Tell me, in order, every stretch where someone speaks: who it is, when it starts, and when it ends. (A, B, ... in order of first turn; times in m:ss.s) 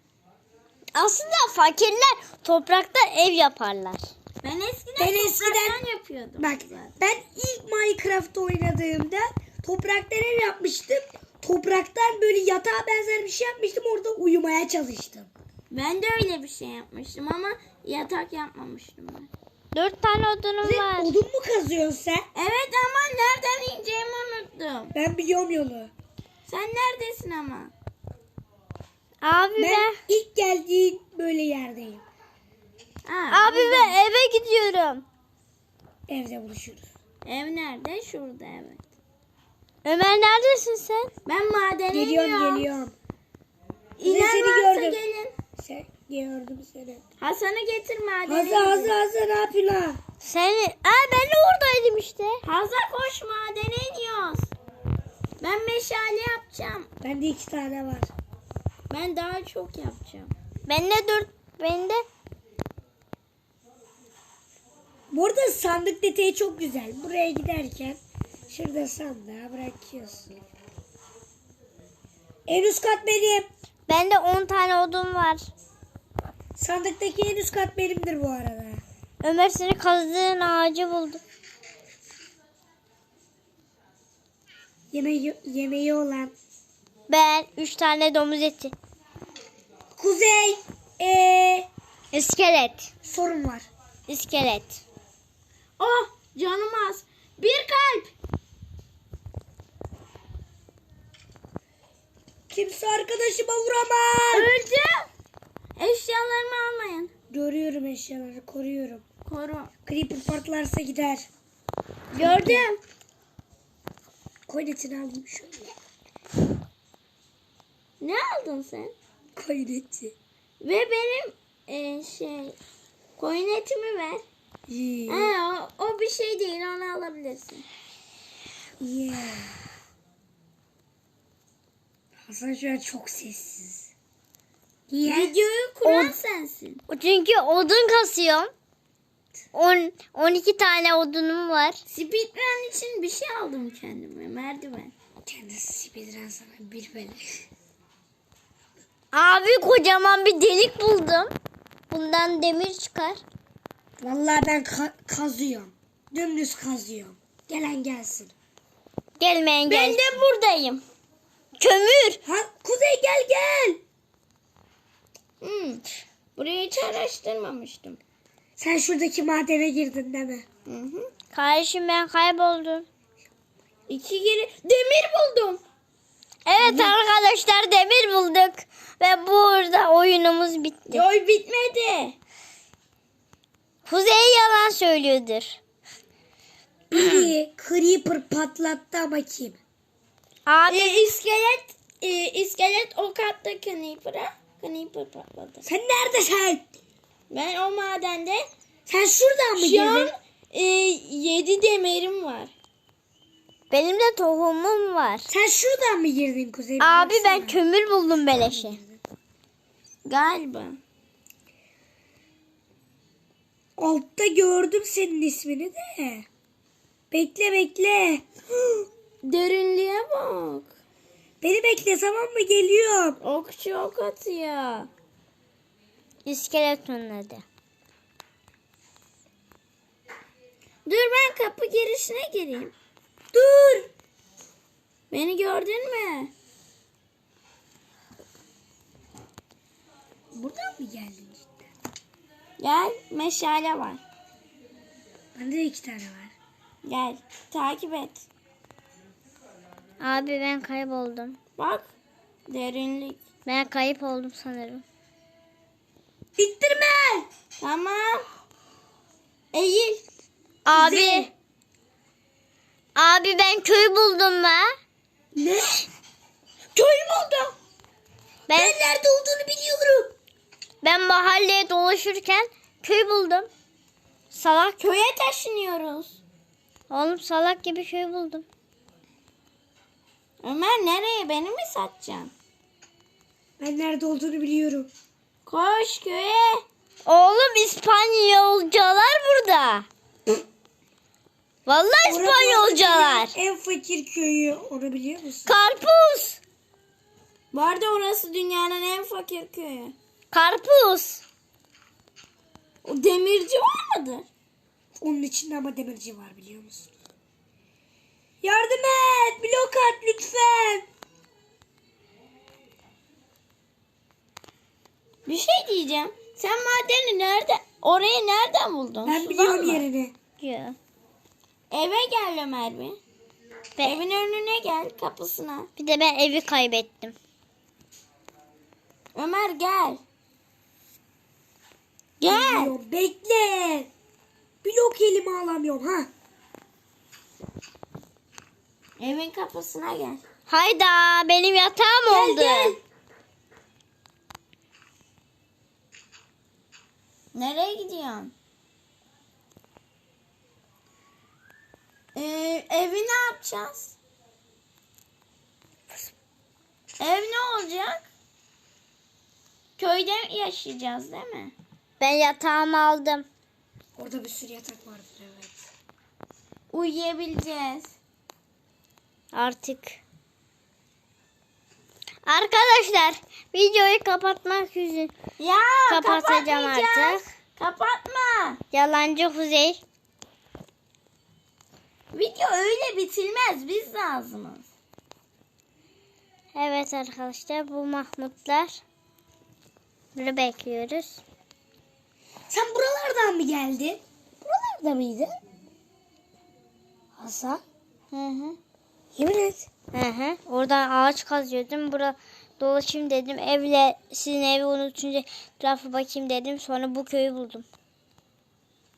0:01.0-0:04.1 A
0:04.4-0:06.9 B
0:05.0-0:05.8 C
0:06.4-0:15.3 C
0:15.7-0:19.3 B
0:19.7-0:21.1 A
0:20.6-0:22.3 C
0:22.4-0:24.9 B
0:25.0-0:25.9 C
0:26.5-0:27.7 B
0:29.2-0:30.0 A
0:29.6-0:32.0 C
0:33.0-0:34.0 B
0:33.3-0:35.0 A
0:36.1-0:36.9 C
0:37.2-0:38.8 B
0:39.8-0:41.1 A
0:41.3-0:42.7 B
0:41.9-0:42.9 C
0:44.0-0:45.4 B
0:44.0-0:45.0 C
0:45.6-0:47.0 C
0:47.2-0:48.9 B
0:48.3-0:50.0 C
0:50.2-0:52.4 A
0:52.4-0:54.5 B
0:55.4-0:56.9 B
0:57.0-0:58.1 C
0:58.9-1:00.3 B
1:00.7-1:02.0 A
1:05.1-1:10.4 C
1:12.5-1:13.5 C
1:13.9-1:15.5 A
1:16.6-1:18.8 C
1:19.2-1:21.2 A
1:24.9-1:26.3 C
1:27.1-1:28.8 A
1:30.0-1:31.7 C
1:32.1-1:32.9 A
1:33.0-1:33.7 C
1:34.1-1:34.8 A
1:35.8-1:38.1 B
1:42.5-1:44.5 C
1:44.3-1:45.1 B
1:45.8-1:47.1 B
1:47.3-1:49.0 C
1:49.3-1:49.7 B
1:49.9-1:51.3 C
1:52.1-1:52.8 B
1:52.2-1:52.5 C
1:52.4-1:52.6 A
1:54.5-1:55.8 C
1:58.0-1:59.0 B
1:59.4-2:00.2 C
2:00.6-2:02.6 B
2:03.2-2:04.2 B
2:04.7-2:05.3 C
2:05.1-2:07.6 B
2:08.8-2:09.6 C
2:12.2-2:13.9 C
2:14.9-2:15.3 C
2:15.0-2:16.8 B
2:15.8-2:16.2 A
2:16.9-2:18.5 A
2:19.5-2:21.8 A
2:21.9-2:24.9 B
2:25.2-2:27.4 C
2:29.1-2:31.3 A
2:31.9-2:33.2 A
2:34.0-2:38.3 C
2:39.2-2:40.0 A
2:39.7-2:40.8 B
2:41.6-2:42.2 A
2:42.2-2:43.8 C
2:45.4-2:45.8 B
2:46.4-2:48.0 B
2:48.6-2:50.4 C
2:50.7-2:51.1 B
2:51.3-2:52.9 A
2:53.9-2:55.6 B
2:56.5-3:01.0 A
3:00.9-3:02.2 B
3:03.9-3:05.6 A
3:06.9-3:09.6 C
3:06.9-3:07.3 A
3:10.5-3:11.0 A
3:10.7-3:15.6 B
3:15.6-3:16.7 C
3:17.3-3:18.5 B
3:18.9-3:20.1 C
3:19.6-3:22.5 B
3:23.7-3:25.3 A
3:25.3-3:27.6 C
3:26.8-3:28.8 A
3:28.5-3:29.0 C
3:30.0-3:30.8 B
3:33.8-3:36.3 C
3:37.1-3:38.9 C
3:39.2-3:40.7 B
3:41.4-3:43.2 C
3:43.2-3:44.9 B
3:46.3-3:47.4 A
3:50.9-3:52.7 B
3:53.3-3:53.9 C
3:55.1-3:56.3 B
4:00.3-4:01.7 C
4:02.6-4:04.0 B
4:05.4-4:06.4 C
4:06.8-4:08.2 B
4:10.0-4:11.4 A
4:11.6-4:11.9 B
4:12.5-4:13.2 B
4:13.4-4:14.8 A
4:16.4-4:17.3 C
4:17.6-4:18.3 B
4:19.5-4:20.0 B
4:20.7-4:21.3 A
4:20.7-4:21.3 C
4:23.0-4:24.7 A
4:25.4-4:25.9 C
4:26.8-4:27.5 B
4:28.5-4:28.8 A
4:28.5-4:30.2 C
4:30.8-4:33.5 A
4:34.3-4:34.8 A
4:34.8-4:36.2 B
4:36.9-4:38.4 A
4:40.4-4:42.3 B
4:43.6-4:44.9 C
4:45.5-4:46.6 B
4:47.1-4:49.9 A
4:51.7-4:53.3 A
4:52.1-4:55.6 C
4:55.5-4:56.4 A
4:57.5-5:00.0 B
5:00.3-5:01.2 A
5:02.8-5:04.3 B
5:05.0-5:06.9 C
5:08.4-5:10.9 C
5:15.3-5:19.8 B
5:19.0-5:20.1 C
5:20.4-5:20.8 A
5:21.7-5:23.0 B
5:23.8-5:25.7 B
5:25.8-5:27.2 A
5:29.2-5:30.0 B
5:32.2-5:32.8 B
5:32.3-5:33.9 C
5:34.6-5:36.1 C
5:39.0-5:40.2 B
5:40.5-5:42.8 A
5:42.1-5:42.8 C
5:47.3-5:48.3 B
5:52.2-5:54.0 B
5:57.0-5:58.1 B
5:59.8-6:01.6 B
6:02.0-6:03.3 A
6:04.0-6:05.7 C
6:06.7-6:07.9 B
6:09.3-6:10.0 A
6:12.2-6:15.1 A
6:15.4-6:18.6 B
6:15.9-6:17.2 A
6:18.7-6:19.8 A
6:22.1-6:24.6 B
6:26.5-6:28.8 A
6:30.2-6:31.2 A
6:32.5-6:35.4 C
6:37.2-6:37.6 C
6:38.1-6:38.6 B
6:39.2-6:39.7 C
6:39.9-6:47.6 A